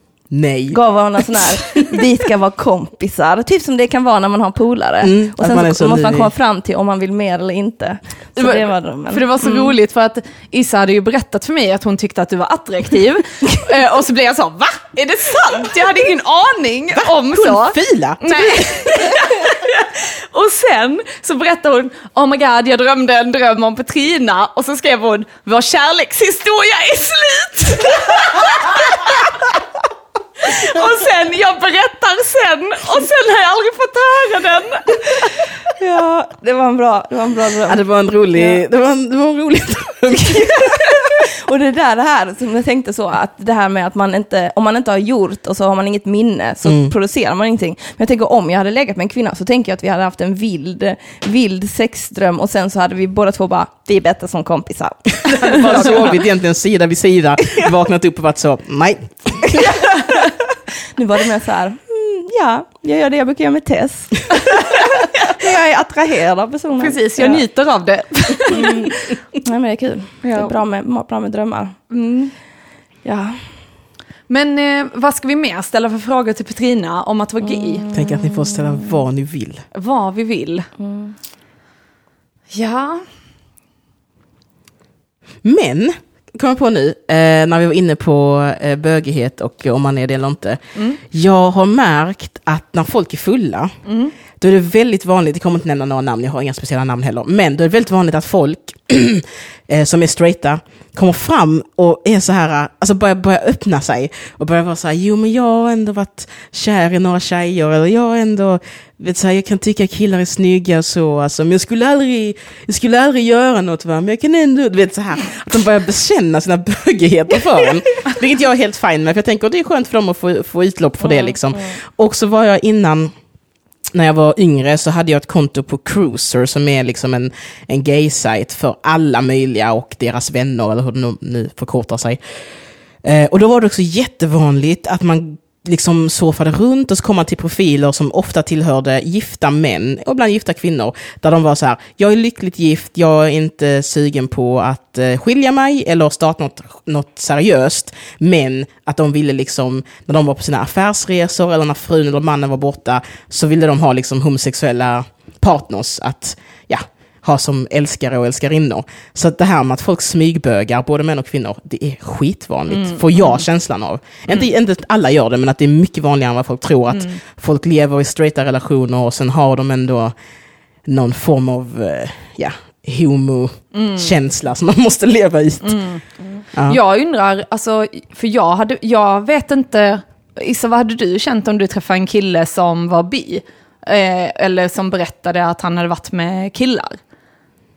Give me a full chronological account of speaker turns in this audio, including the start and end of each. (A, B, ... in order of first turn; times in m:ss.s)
0:00.3-0:02.0 A
0:00.7-0:09.7 B
0:05.0-0:06.3 A
0:08.4-0:29.3 C
0:17.0-0:19.2 A
0:30.4-0:35.4 C
0:35.7-0:37.8 B
0:37.7-0:41.2 A
0:38.3-0:38.6 B
0:40.4-0:56.2 B
0:46.6-0:46.9 A
0:55.2-0:59.7 A
1:01.0-1:07.4 B
1:06.8-1:08.9 C
1:08.5-1:12.3 B
1:10.2-1:10.6 C
1:11.9-1:12.3 C
1:13.0-1:13.5 B
1:14.3-1:17.8 C
1:17.4-1:19.0 B
1:17.9-1:19.6 A
1:19.7-1:20.7 C
1:20.8-1:21.2 B
1:22.5-1:23.0 C
1:25.4-1:33.7 A
1:33.9-1:34.1 C
1:34.4-2:03.1 A
2:03.9-2:12.2 A
2:13.0-2:50.1 A
2:42.7-2:43.4 C
2:50.9-2:55.8 A
2:53.7-2:54.1 C
2:55.6-2:56.0 C
2:56.5-2:56.8 A
2:56.7-3:07.0 C